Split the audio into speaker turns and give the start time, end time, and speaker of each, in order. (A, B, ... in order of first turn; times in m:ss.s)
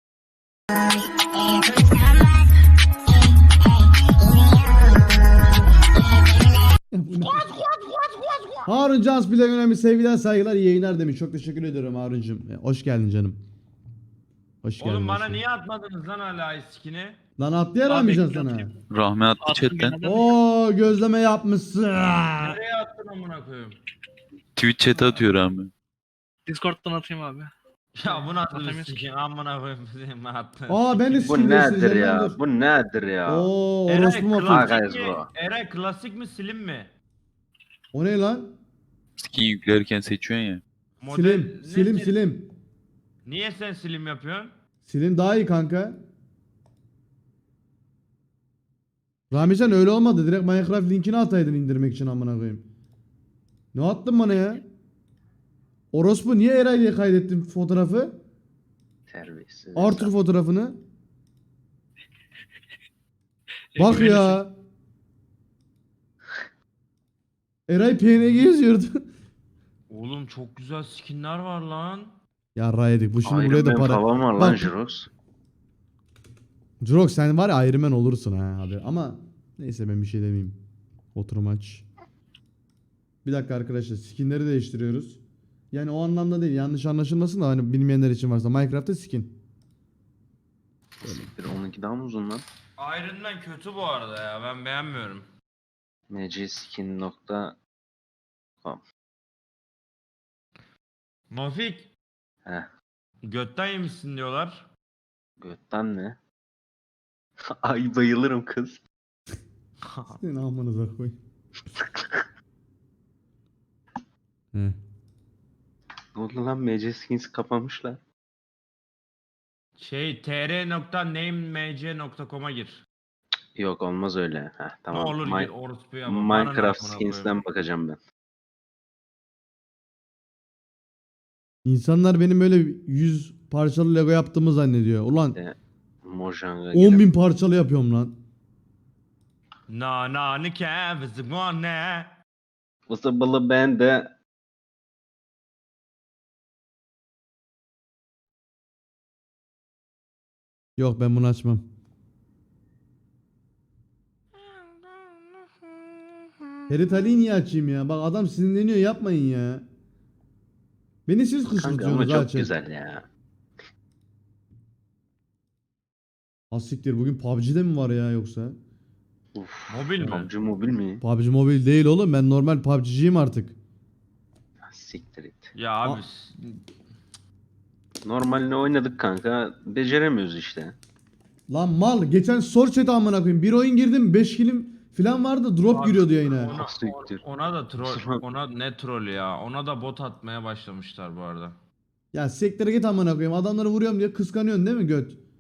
0:06.9-0:07.5 A
0:07.2-0:08.6 B
0:08.7-0:13.4 A
0:14.6-0:15.4 A
0:14.8-0:17.2 B
0:17.4-0:18.7 A
0:17.9-0:18.4 C
0:18.9-0:20.1 D
0:19.4-0:20.3 C
0:20.0-0:22.6 A
0:22.4-0:23.8 B
0:24.6-0:25.7 D
0:26.5-0:27.5 C
0:28.0-0:31.4 B
0:28.1-0:29.0 C
0:30.7-0:32.4 A
0:31.3-0:33.5 E
0:33.3-0:34.7 A
0:33.9-0:36.9 B
0:34.5-0:35.3 E
0:37.9-0:38.5 A
0:39.2-0:40.6 D
0:41.0-0:42.2 B
0:41.1-0:42.5 A
0:43.3-0:44.5 B
0:44.8-0:46.0 A
0:49.3-0:52.6 A
0:53.7-0:54.7 A
0:55.9-0:58.2 A
0:59.1-1:00.1 E
0:59.8-1:00.8 A
1:03.8-1:04.5 A
1:07.7-1:09.0 A
1:09.9-1:12.2 B
1:12.6-1:14.7 A
1:13.2-1:15.1 E
1:16.8-1:20.6 A
1:21.2-1:21.9 A
1:23.2-1:25.2 A
1:25.7-1:29.4 A
1:31.0-1:32.5 E
1:31.0-1:31.3 A
1:32.8-1:35.3 B
1:36.1-1:37.6 E
1:41.3-1:41.9 B
1:43.2-1:44.7 B
1:45.4-1:46.2 E
1:47.5-1:48.8 E
1:49.9-1:50.2 B
1:50.1-1:51.2 A
1:56.2-1:58.0 E
1:59.8-2:02.8 B
2:03.6-2:05.5 E
2:04.9-2:07.3 B
2:06.1-2:08.0 E
2:11.6-2:15.4 A
2:15.4-2:17.1 E
2:16.7-2:18.2 A
2:19.7-2:22.1 B
2:22.9-2:24.1 E
2:30.8-2:31.6 A
2:34.4-2:36.8 B
2:36.7-2:39.6 A
2:41.1-2:42.5 A
2:41.5-2:43.0 E
2:46.5-2:48.6 A
2:49.4-2:51.0 E
2:49.7-2:50.3 B
2:51.0-2:53.6 A
2:54.6-2:55.5 E
2:55.6-2:56.6 B
2:58.0-3:00.8 E
3:01.5-3:06.5 A
3:05.7-3:11.6 B
3:06.5-3:07.2 E
3:07.8-3:08.2 E
3:12.1-3:15.2 A